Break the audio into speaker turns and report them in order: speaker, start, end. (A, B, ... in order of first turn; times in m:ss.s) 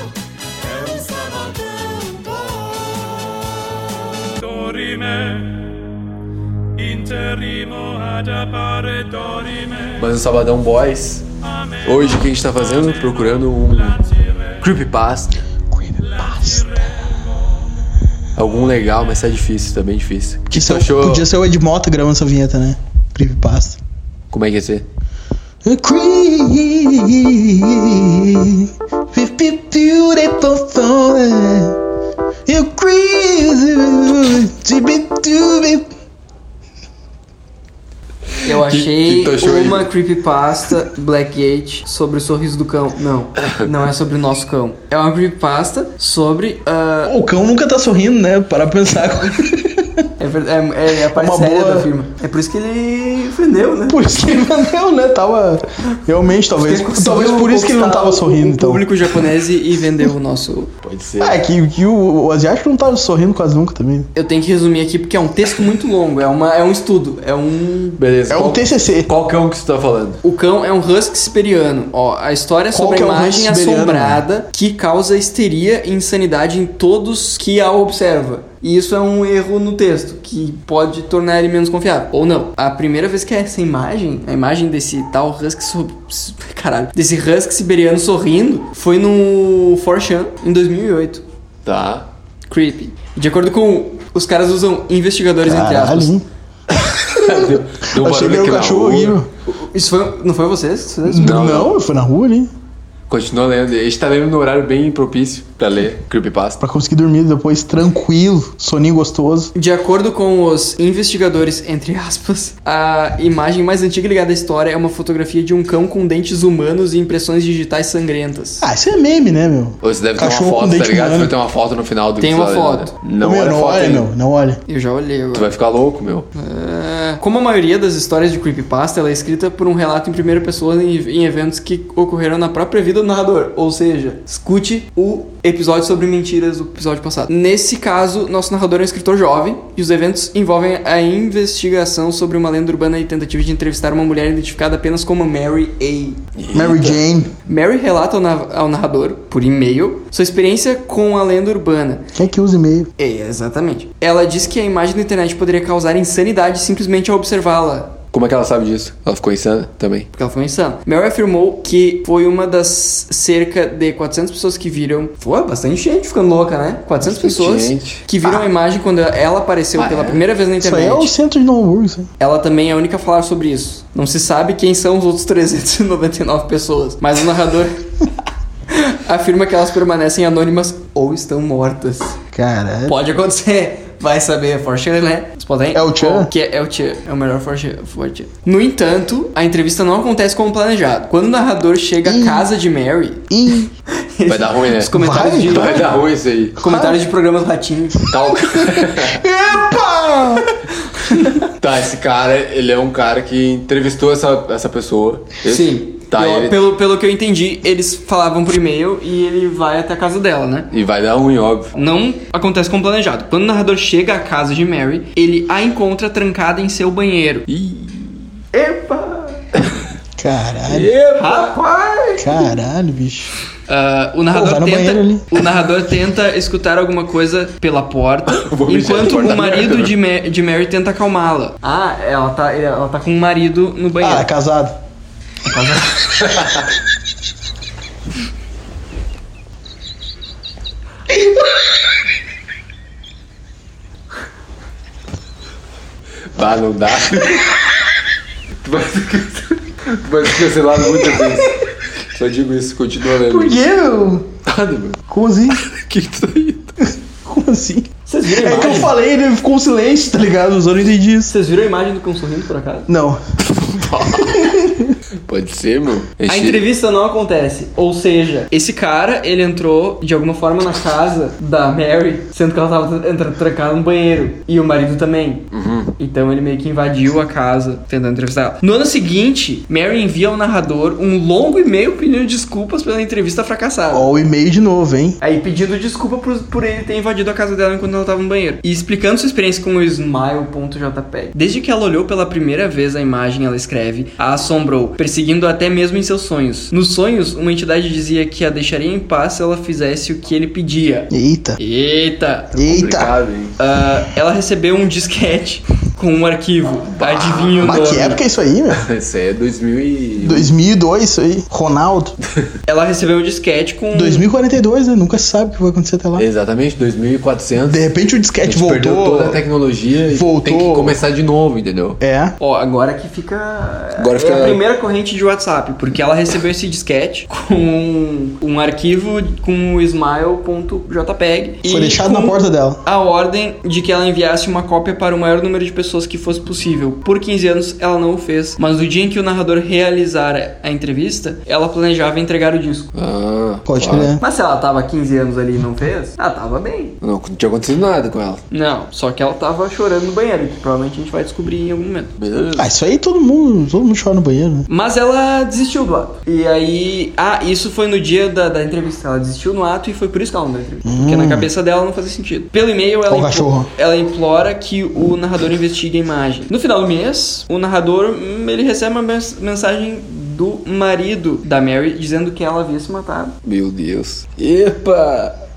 0:00.6-0:02.7 A
0:04.4-0:05.6 A
0:06.8-0:11.2 A
0:11.8-0:15.3 A
0:15.7-0:17.0 B
0:18.3-0:21.2 A
0:20.5-0:23.8 B
0:24.3-0:24.8 A
0:25.6-0:31.8 B
0:32.4-0:35.9 B
0:38.4-0:47.2 C
0:38.5-0:39.9 A
0:47.0-0:50.1 B
0:50.2-0:54.0 C
0:51.1-0:51.9 B
0:53.9-0:59.1 B
0:56.6-1:00.7 C
1:00.8-1:01.4 A
1:01.2-1:04.1 B
1:04.1-1:08.0 C
1:08.0-1:10.2 A
1:08.3-1:09.1 B
1:10.2-1:31.2 C
1:12.7-1:14.2 B
1:31.6-1:32.0 A
1:32.5-1:36.1 C
1:35.4-1:36.2 B
1:36.7-1:39.2 A
1:37.1-1:39.3 B
1:39.5-1:41.6 C
1:41.0-1:42.5 B
1:41.2-1:41.8 A
1:43.1-1:46.6 A
1:46.6-1:49.5 B
1:49.6-1:58.7 C
1:58.6-2:01.3 B
1:59.8-2:04.0 A
2:02.2-2:02.9 C
2:03.2-2:04.6 B
2:04.7-2:05.5 C
2:05.3-2:06.3 A
2:06.3-2:26.2 C
2:26.4-2:27.0 A
2:26.5-2:27.3 B
2:27.5-2:32.0 C
2:32.1-2:32.9 B
2:33.0-2:38.0 C
2:38.1-2:40.1 A
2:40.2-2:51.1 C
2:47.0-2:48.0 A
2:49.8-2:50.2 A
2:50.6-2:52.1 B
2:52.2-2:57.8 C
2:58.7-3:02.2 C
3:02.3-3:03.0 B
3:02.9-3:13.2 C
3:05.7-3:06.3 B
3:12.0-3:12.5 B
3:13.3-3:13.7 B
3:13.9-3:15.9 C
3:14.3-3:16.6 A
3:14.9-3:15.6 B
3:16.6-3:17.0 B
3:16.6-3:18.1 C
3:18.1-3:19.2 A
3:18.1-3:20.5 B
3:20.9-3:21.5 C
3:21.4-3:26.7 A
3:25.4-3:30.7 C
3:30.7-3:31.7 A
3:31.8-3:37.9 C
3:38.5-3:39.5 C
3:40.2-3:40.9 B
3:40.7-3:41.8 A
3:41.2-3:42.2 C
3:42.2-3:43.3 B
3:43.7-3:54.3 C
3:44.3-3:45.4 B
3:48.3-3:49.9 A
3:54.0-3:54.8 B
3:55.5-3:56.1 C
3:56.2-3:56.7 A
4:06.3-4:07.5 A
4:08.6-4:13.6 A
4:13.2-4:14.3 B
4:14.4-4:15.0 A
4:15.1-4:15.6 B
4:15.5-4:16.8 A
4:17.2-4:21.3 B
4:18.0-4:18.9 C
4:21.3-4:22.9 C
4:22.9-4:25.0 B
4:23.7-4:24.4 A
4:25.3-4:26.6 A
4:26.2-4:35.4 C
4:35.5-4:35.9 A
4:36.0-4:44.1 C
4:43.9-4:45.2 B
4:45.2-5:02.6 C
5:01.1-5:01.6 B
5:02.5-5:03.2 B
5:02.6-5:03.6 A
5:03.6-5:08.2 C
5:07.0-5:07.8 A
5:07.6-5:08.9 B
5:08.7-5:10.5 A
5:10.2-5:12.1 B
5:12.6-5:14.2 C
5:13.9-5:16.2 B
5:16.2-5:17.8 A
5:17.6-5:19.4 B
5:18.4-5:22.0 A
5:20.1-5:21.0 B
5:22.0-5:22.3 B
5:22.4-5:42.9 C
5:24.0-5:24.6 A
5:31.6-5:32.8 B
5:42.9-5:44.1 A
5:43.6-5:44.2 B
5:44.2-5:47.0 C
5:47.0-5:48.4 A
5:48.5-5:52.1 C
5:52.2-5:52.7 A
5:52.5-5:54.7 B
5:54.7-6:13.4 C
6:00.8-6:01.5 B
6:03.1-6:03.7 B
6:13.4-6:15.4 A